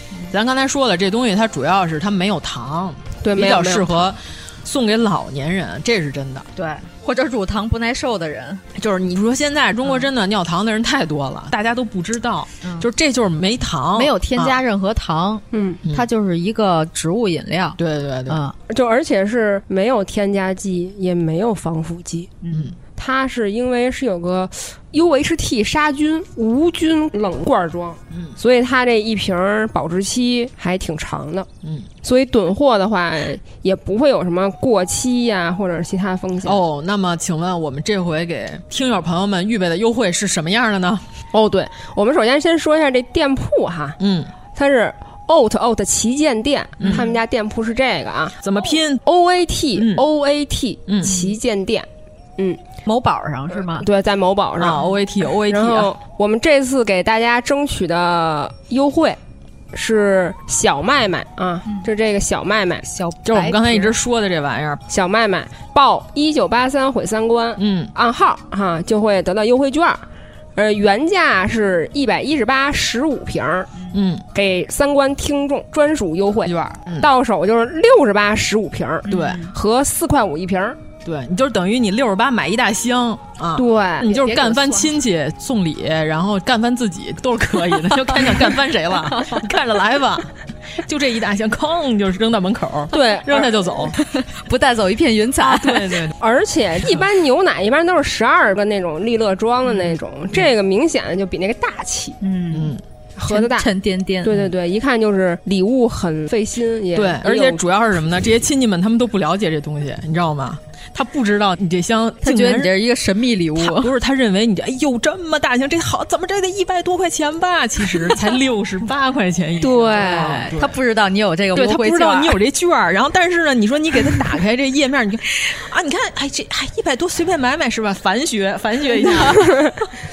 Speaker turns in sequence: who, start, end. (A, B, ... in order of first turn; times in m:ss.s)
0:00.3-0:06.5 A
0:03.2-0:04.0 B
0:06.6-0:08.6 C
0:08.7-0:14.6 A
0:14.0-0:18.5 C
0:15.5-0:15.8 B
0:17.8-0:18.4 A
0:18.7-0:22.3 B
0:22.4-0:22.7 C
0:23.0-0:31.5 B
0:31.6-0:31.9 A
0:32.0-0:36.6 B
0:36.4-0:41.0 A
0:41.3-0:44.0 B
0:44.0-0:44.3 A
0:44.5-0:48.4 B
0:46.8-0:47.1 A
0:48.4-0:49.0 A
0:49.0-0:52.6 B
0:49.7-0:50.0 A
0:50.9-0:51.1 A
0:52.8-0:53.8 C
0:53.7-0:54.8 B
0:54.6-0:55.9 A
0:55.5-0:59.2 B
0:59.7-1:02.8 B
1:02.8-1:03.9 C
1:03.2-1:04.8 A
1:04.9-1:10.0 B
1:07.6-1:07.9 A
1:10.6-1:13.7 B
1:13.9-1:14.2 A
1:14.3-1:20.8 B
1:16.4-1:17.1 A
1:19.1-1:19.5 C
1:19.1-1:19.4 A
1:21.0-1:34.0 A
1:23.6-1:24.3 B
1:24.2-1:24.9 C
1:32.9-1:33.8 B
1:34.0-1:35.9 C
1:35.4-1:36.2 A
1:36.2-1:42.2 B
1:42.2-1:42.7 C
1:42.5-1:42.8 A
1:43.2-1:43.7 B
1:43.3-1:44.3 C
1:44.2-1:47.6 B
1:46.9-1:52.7 A
1:52.2-1:53.9 C
1:53.6-2:00.8 A
1:59.6-2:00.4 B
2:00.0-2:02.4 C
2:01.5-2:09.5 A
2:09.3-2:09.8 B